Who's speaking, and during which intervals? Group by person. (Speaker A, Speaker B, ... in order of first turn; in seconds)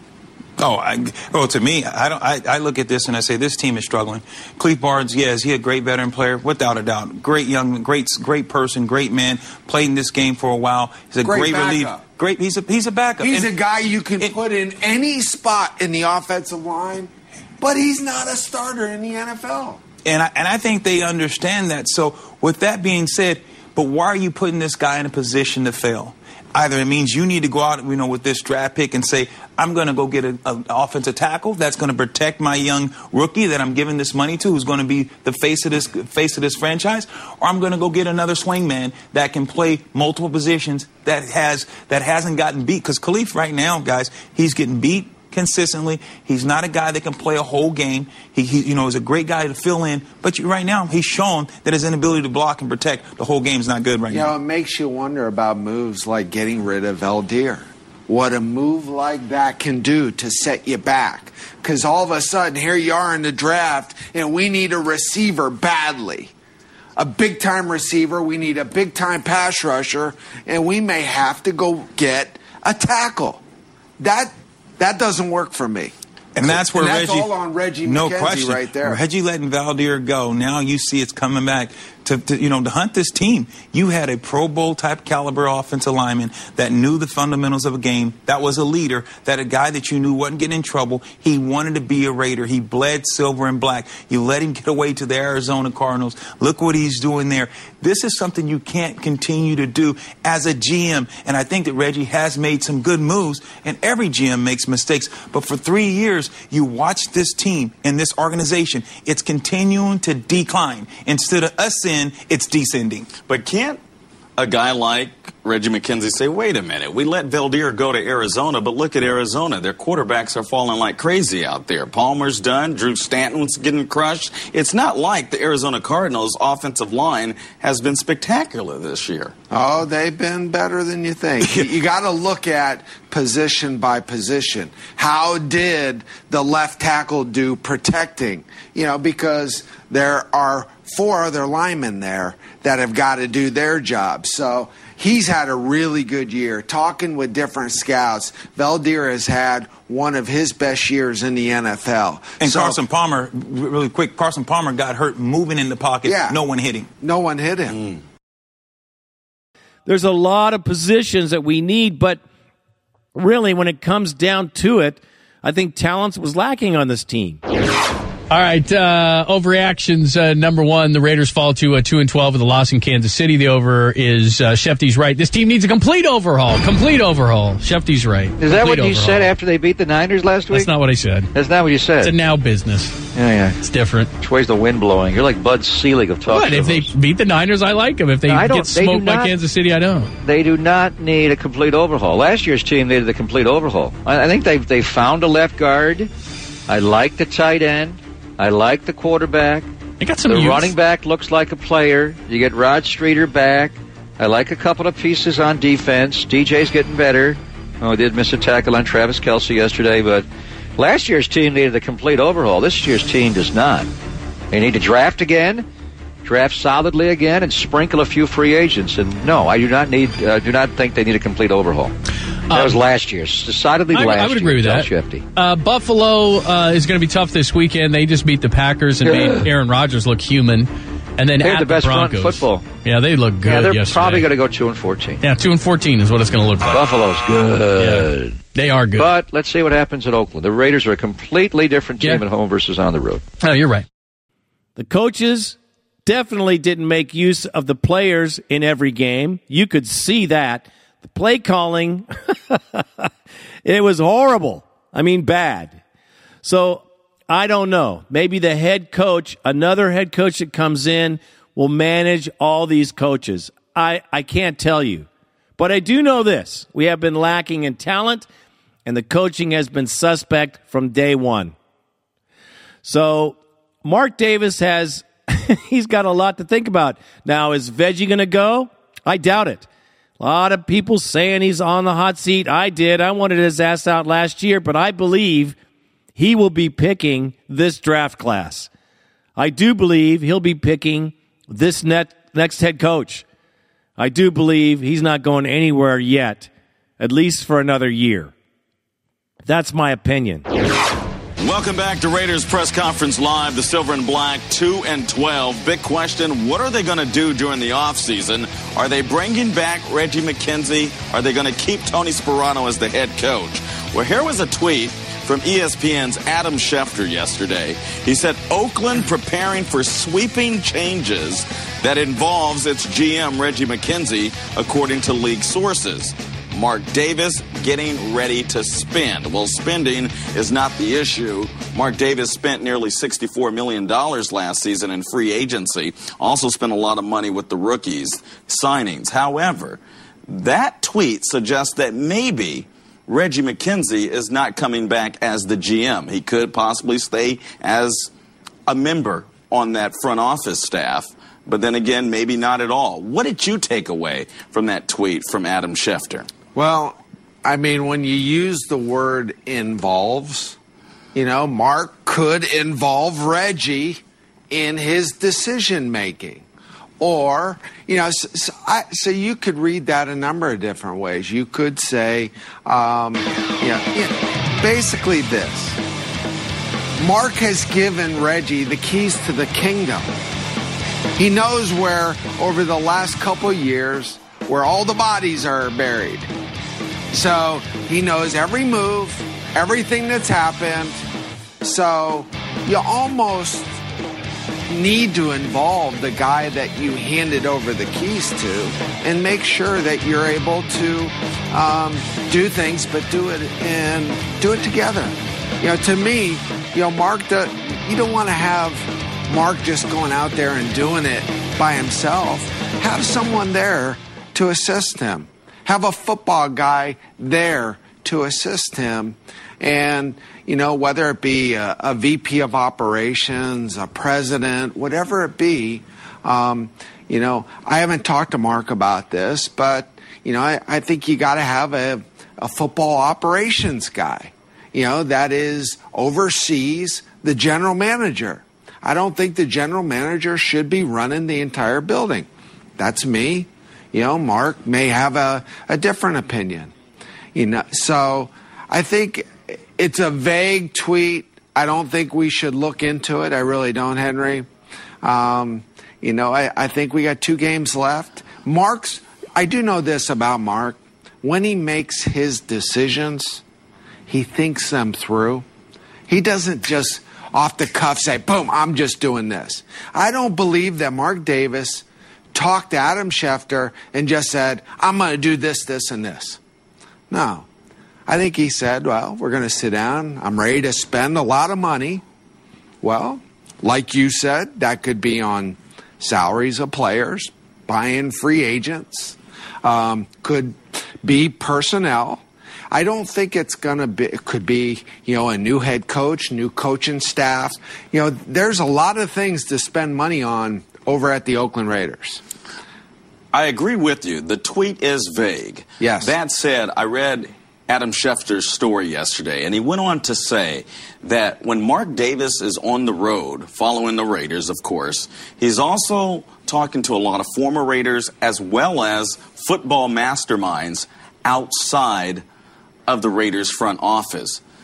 Speaker A: 0.6-13.5, 20.0-54.3, 76.3-77.3, 77.8-113.1, 152.4-156.9
Speaker B: 11.2-12.0, 13.2-19.8, 54.1-66.3, 67.0-73.4, 74.0-79.0, 129.5-152.8, 156.0-156.4, 157.0-157.8, 356.5-360.6, 361.1-366.4, 367.0-375.8, 377.0-380.1, 381.2-386.3, 387.1-391.0, 391.6-393.8, 394.7-446.7, 447.3-454.5, 455.0-463.4, 464.1-465.4, 466.1-476.4, 477.1-477.5, 478.1-482.0, 482.8-502.2, 505.8-506.1
Speaker C: 113.2-113.8, 114.4-129.3, 301.4-348.1, 348.7-356.3, 503.3-522.2, 522.9-524.4
Speaker D: 159.8-162.2, 163.1-167.4, 244.8-253.1, 253.6-255.8, 256.4-265.1, 265.6-268.3, 268.8-271.5, 272.8-279.7, 280.2-285.5, 286.1-288.7, 289.4-293.2, 294.0-298.3, 299.4-300.4
Speaker E: 168.3-179.3, 180.5-181.3, 182.0-183.1, 183.6-184.1, 186.3-190.1, 200.0-200.7, 222.5-222.8, 223.9-234.3, 235.2-236.9, 237.8-239.1, 243.4-243.8
Speaker F: 178.4-180.7, 181.3-182.1, 183.1-183.6, 184.2-186.9, 188.2-189.3, 190.2-196.1, 196.7-199.7, 200.2-210.2, 210.8-213.9, 214.5-215.6, 216.2-221.9, 222.5-225.2, 229.0-229.5, 231.4-232.7, 233.4-235.2, 236.7-238.4, 238.9-243.3